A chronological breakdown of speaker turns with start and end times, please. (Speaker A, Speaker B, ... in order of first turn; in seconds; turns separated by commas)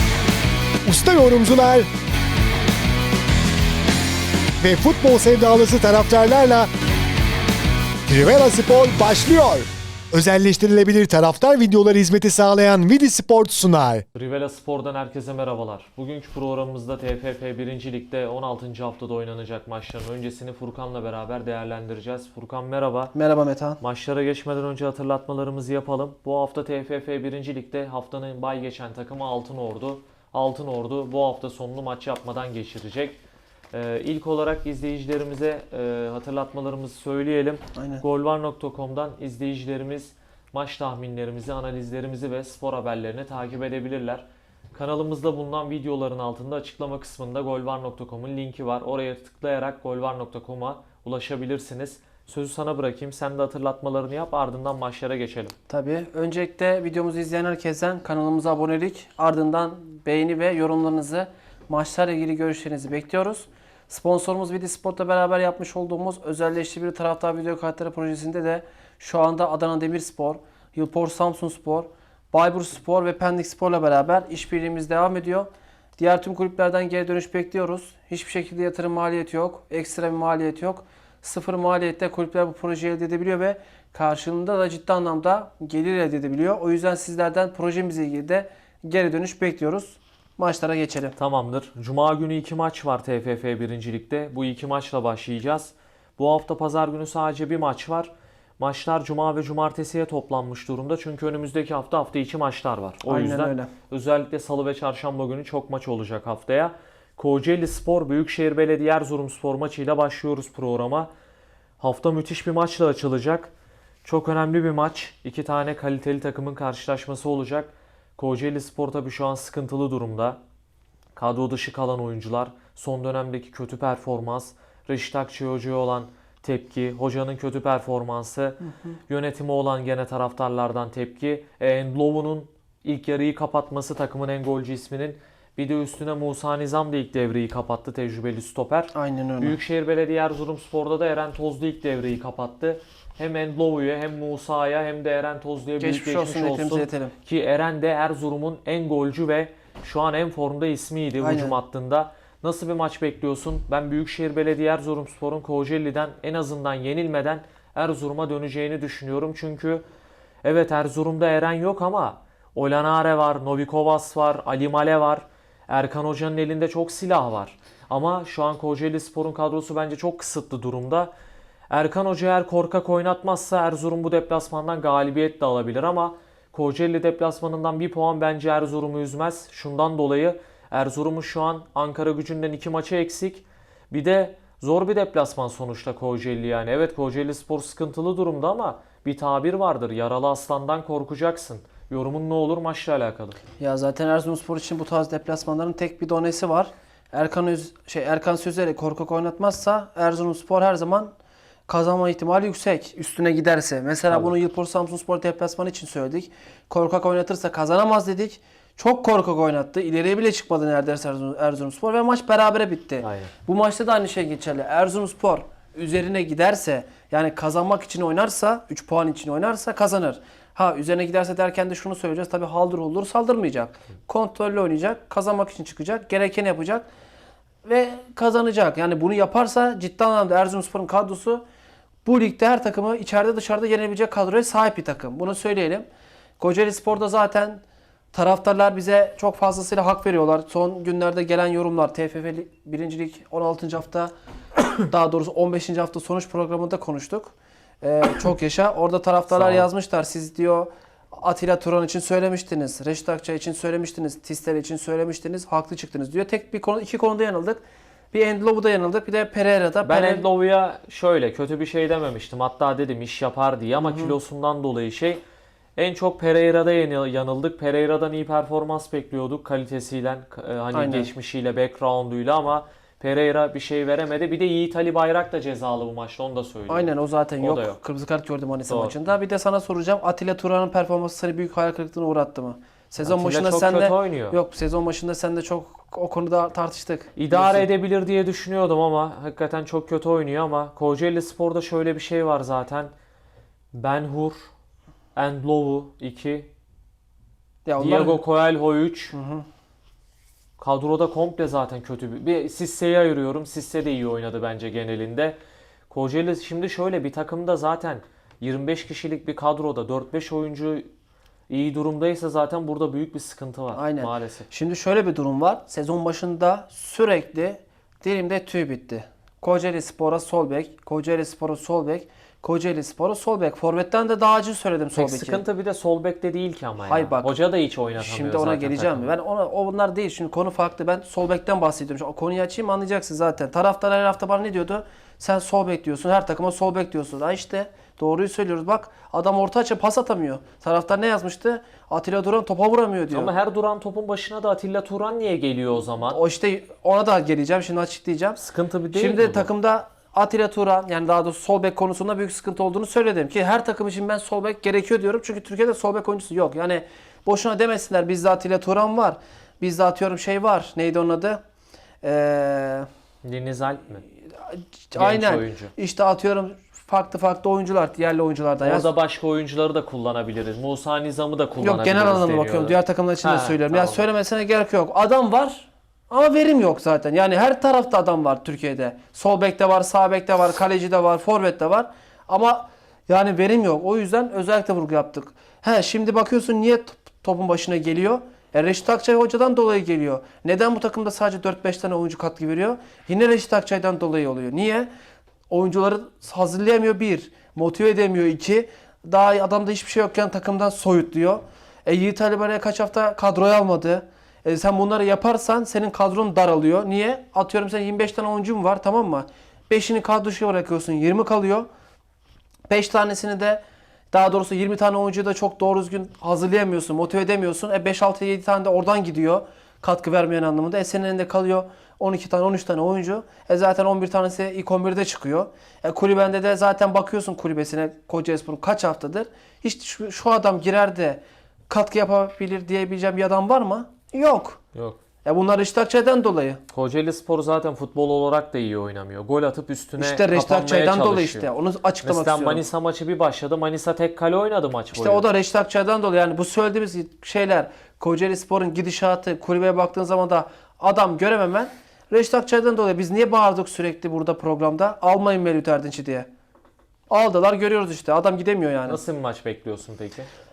Speaker A: 0.8-1.9, Speaker A: 4.6-6.7, Speaker A: 8.1-14.0, Speaker B: 14.1-23.1, Speaker C: 23.1-23.8, Speaker B: 23.8-33.2, Speaker B: 33.7-55.5, Speaker C: 37.8-38.0, Speaker C: 55.7-91.2, Speaker B: 91.2-111.1, Speaker C: 103.0-103.7, Speaker B: 111.8-113.5, Speaker B: 114.0-120.4, Speaker B: 121.2-159.8, Speaker C: 128.6-129.0, Speaker C: 138.9-139.6, Speaker C: 145.8-147.1, Speaker C: 151.2-151.5, Speaker B: 160.4-171.1, Speaker B: 171.7-193.4, Speaker C: 193.6-201.1, Speaker C: 201.7-226.9, Speaker B: 204.1-204.3, Speaker B: 213.0-213.3, Speaker C: 227.6-231.4, Speaker C: 232.0-235.8, Speaker C: 236.4-237.6, Speaker C: 238.1-244.1, Speaker C: 244.9-260.3, Speaker B: 249.3-249.7, Speaker B: 259.8-265.2, Speaker C: 263.8-264.1, Speaker B: 265.8-277.8, Speaker C: 270.7-271.1, Speaker C: 276.7-287.7, Speaker B: 278.7-278.9, Speaker B: 283.0-284.4, Speaker B: 287.1-292.9, Speaker B: 293.7-294.5, Speaker B: 295.1-296.5, Speaker C: 297.6-298.2, Speaker B: 297.8-299.1, Speaker C: 299.1-299.4, Speaker B: 300.6-305.4, Speaker B: 305.9-310.9, Speaker B: 311.5-314.5, Speaker C: 313.7-325.4, Speaker B: 324.9-329.1, Speaker C: 326.9-327.4, Speaker C: 328.0-343.3, Speaker B: 343.1-346.2, Speaker C: 346.1-348.4, Speaker B: 348.4-349.5, Speaker C: 348.9-361.4, Speaker C: 362.0-362.9, Speaker B: 363.2-364.0, Speaker C: 364.4-368.9, Speaker B: 364.9-365.7, Speaker B: 368.6-374.0, Speaker C: 371.6-394.9, Speaker C: 395.5-411.7, Speaker C: 412.7-413.6, Speaker C: 414.1-434.6, Speaker B: 434.7-435.0, Speaker C: 435.2-436.6, Speaker B: 436.7-441.5, Speaker C: 440.0-442.6, Speaker B: 442.0-445.2, Speaker C: 444.9-456.3, Speaker C: 457.1-459.0, Speaker B: 458.9-460.3